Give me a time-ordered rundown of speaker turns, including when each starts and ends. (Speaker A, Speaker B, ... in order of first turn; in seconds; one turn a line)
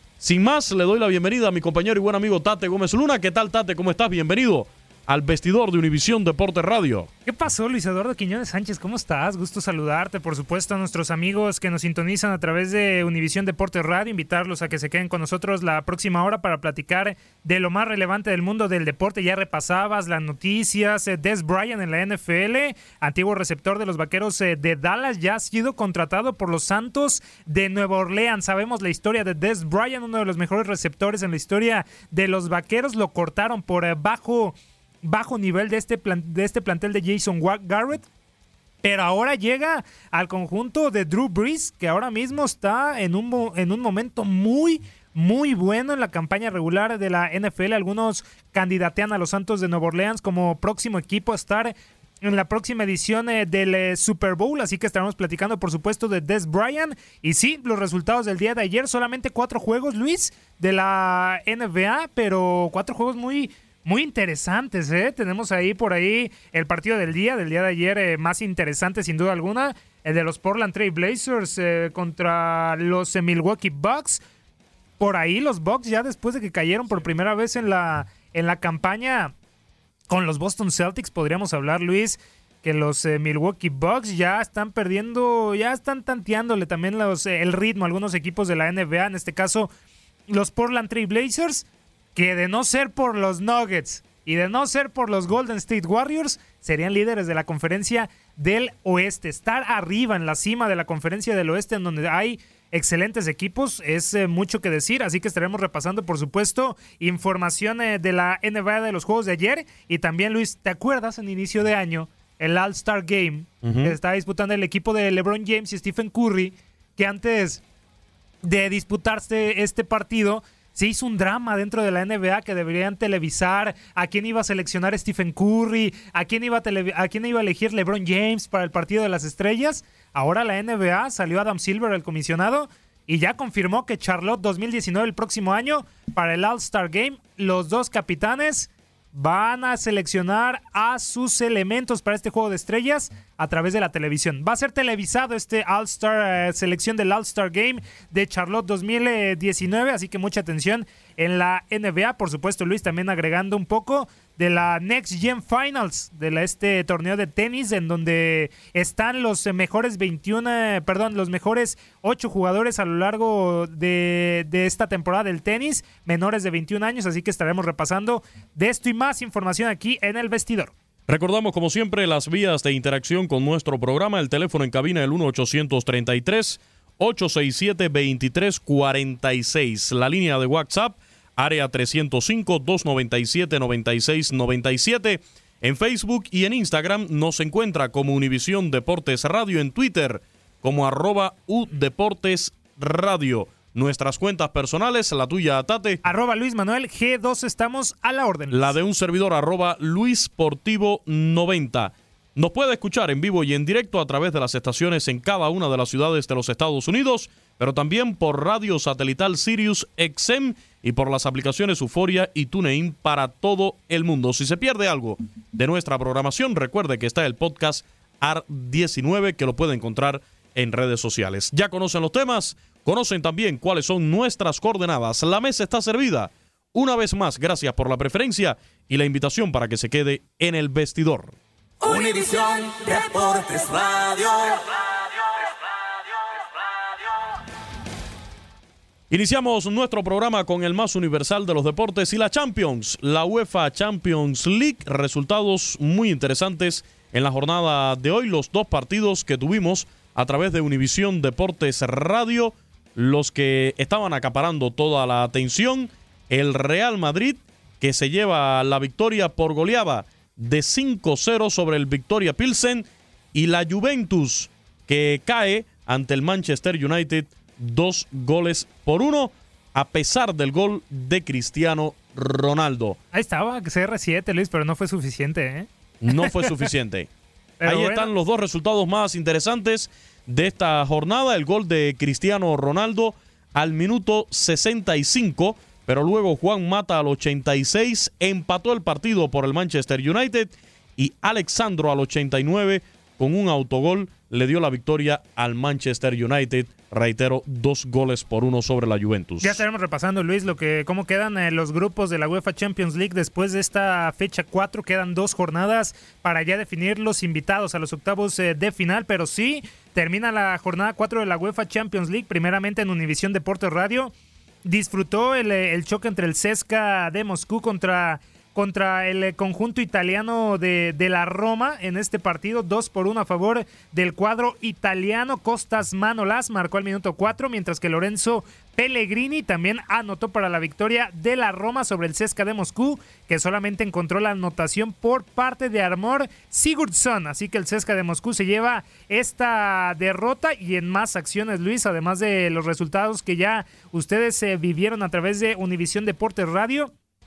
Speaker A: 0.2-7.1
Speaker B: 7.2-38.0
Speaker B: 38.8-74.2
Speaker B: 75.0-79.3
Speaker B: 80.1-89.7
Speaker B: 90.3-117.6
Speaker A: 113.6-114.0
Speaker B: 118.4-170.7
Speaker A: 171.1-196.0
Speaker B: 196.0-198.8
Speaker A: 198.5-231.3
Speaker C: 231.8-234.6
Speaker A: 239.1-273.0
Speaker B: 273.1-276.5
Speaker A: 276.0-277.1
Speaker B: 277.6-278.1
Speaker A: 277.6-299.6
Speaker B: 299.4-314.1
Speaker B: 314.6-346.9